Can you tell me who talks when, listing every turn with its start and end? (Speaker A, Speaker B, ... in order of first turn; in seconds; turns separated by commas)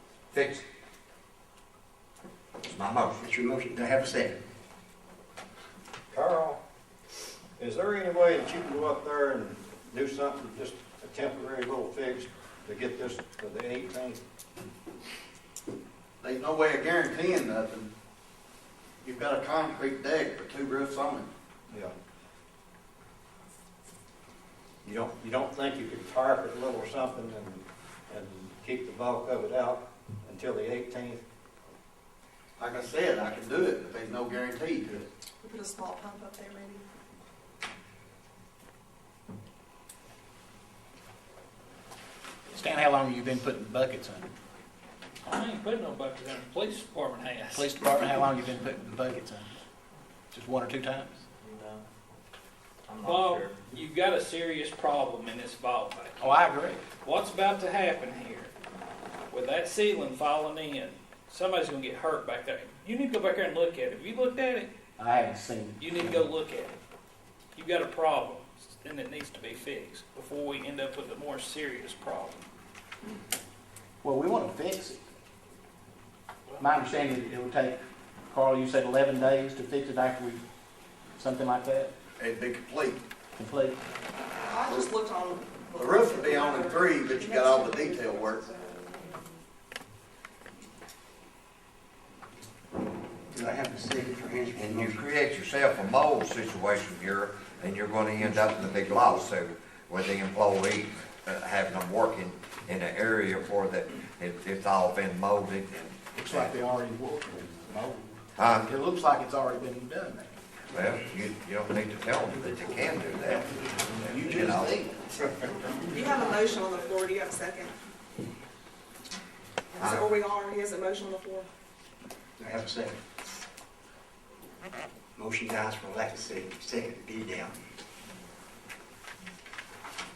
Speaker A: 0.3-0.6, Speaker A: 2.6-3.3, Speaker B: 3.2-4.4, Speaker C: 6.1-6.6, Speaker C: 7.6-14.2, Speaker D: 16.2-17.9, Speaker D: 19.0-21.3, Speaker C: 21.7-21.9, Speaker C: 24.8-31.2, Speaker D: 32.6-35.1, Speaker E: 35.4-36.8, Speaker F: 42.5-44.3, Speaker G: 45.2-48.2, Speaker F: 47.5-49.5, Speaker F: 50.3-51.1, Speaker G: 53.0-56.4, Speaker F: 56.2-56.8, Speaker G: 57.0-58.5, Speaker G: 59.3-64.7, Speaker F: 65.0-66.3, Speaker G: 65.8-66.8, Speaker G: 67.6-72.4, Speaker F: 74.0-75.0, Speaker F: 76.6-80.4, Speaker F: 81.2-81.9, Speaker D: 82.2-83.0, Speaker F: 83.3-83.8, Speaker E: 84.4-89.4, Speaker D: 85.8-88.4, Speaker B: 93.3-95.1, Speaker A: 94.5-106.5, Speaker F: 106.1-110.4, Speaker A: 108.4-108.7, Speaker A: 110.7-114.8, Speaker F: 113.2-116.6, Speaker E: 115.9-117.8, Speaker E: 119.8-121.5, Speaker A: 119.8-120.1, Speaker B: 122.4-123.0, Speaker B: 125.2-127.6